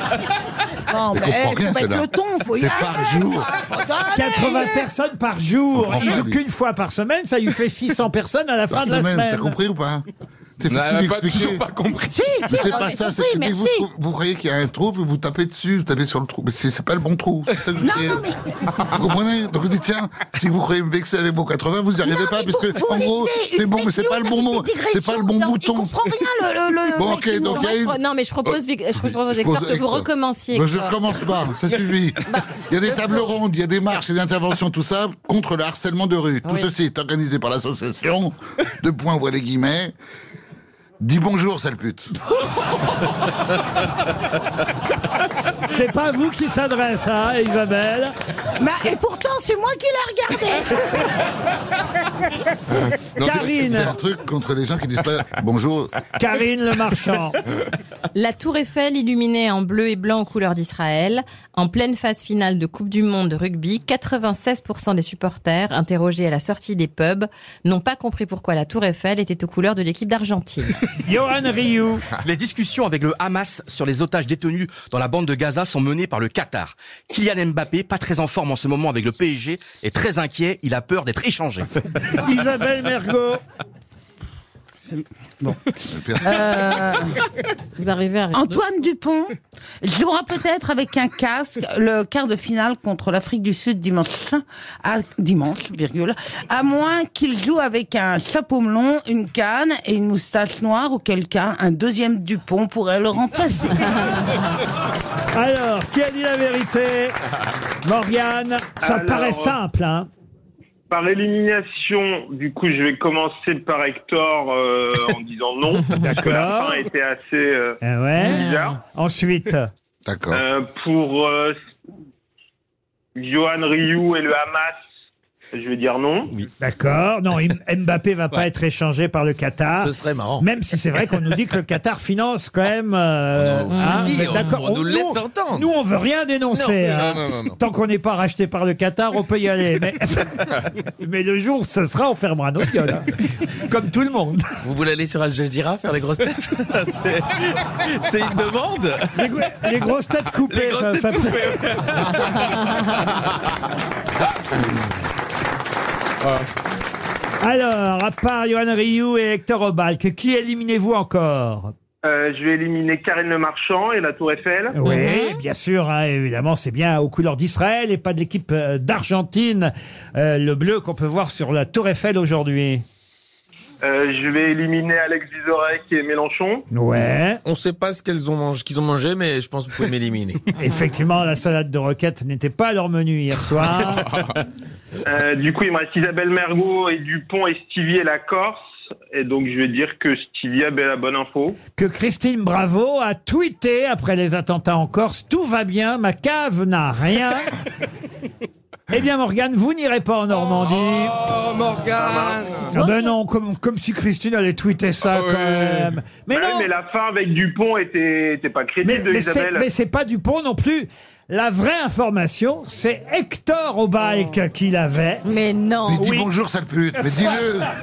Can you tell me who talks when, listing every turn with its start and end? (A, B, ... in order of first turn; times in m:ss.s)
0:00.8-0:04.8 A
0:01.1-0:03.5 B
0:04.1-0:09.6 C
0:05.7-0:06.4 B
0:08.7-0:10.0 B
0:10.6-0:11.6 B
0:10.7-0:12.8 D
0:12.1-0:13.9 A
0:12.5-0:25.9 B
0:17.8-0:18.4 A
0:22.0-0:27.8 A
0:27.0-0:28.6 B
0:27.5-0:31.0 E
0:29.2-0:40.0 B
0:32.3-0:33.2 E
0:36.4-0:36.7 E
0:41.0-0:42.1 B
0:45.7-0:48.1 C
0:48.6-0:51.2 A
0:52.8-0:53.6 D
0:53.2-0:53.9 C
0:53.3-0:55.9 B
0:56.2-0:57.4 C
0:58.1-1:10.8 E
1:11.0-1:12.1 C
1:12.2-1:21.7 F
1:21.9-1:23.4 C
1:25.8-1:26.5 B
1:26.2-1:27.2 A
1:27.8-1:28.6 E
1:28.3-1:43.9 A
1:45.3-1:47.2 C
1:47.8-1:50.1 C
1:48.8-1:49.6 G
1:50.9-1:58.8 G
1:55.9-1:56.9 C
1:57.8-1:59.7 C
1:58.2-1:58.6 E
2:00.1-2:00.4 B
2:00.3-2:01.5 G
2:03.2-2:04.8 G
2:05.5-2:06.3 G
2:06.6-2:24.4 C
2:09.8-2:10.4 H
2:13.4-2:15.7 H
2:13.7-2:14.6 E
2:16.5-2:17.6 H
2:24.6-2:29.3 H
2:29.1-2:32.2 C
2:30.4-2:33.3 H
2:37.4-2:41.7 C
2:42.0-2:44.8 G
2:44.7-2:52.8 C
2:44.8-2:45.4 E
2:53.8-2:56.6 G
2:56.7-2:57.4 C
2:57.4-3:00.5 H
3:00.6-3:04.1 C
3:04.0-3:04.4 H
3:05.1-3:08.6 G
3:09.1-3:11.6 G
3:11.8-3:17.5 C
3:18.9-3:21.2 C
3:20.9-3:22.8 D
3:22.0-3:22.5 G
3:22.7-3:26.7 C
3:25.0-3:26.0 D
3:26.3-3:29.7 G
3:28.8-3:35.3 C
3:35.2-3:36.1 E
3:35.8-3:37.7 B
3:36.0-3:36.3 C
3:37.0-3:37.4 C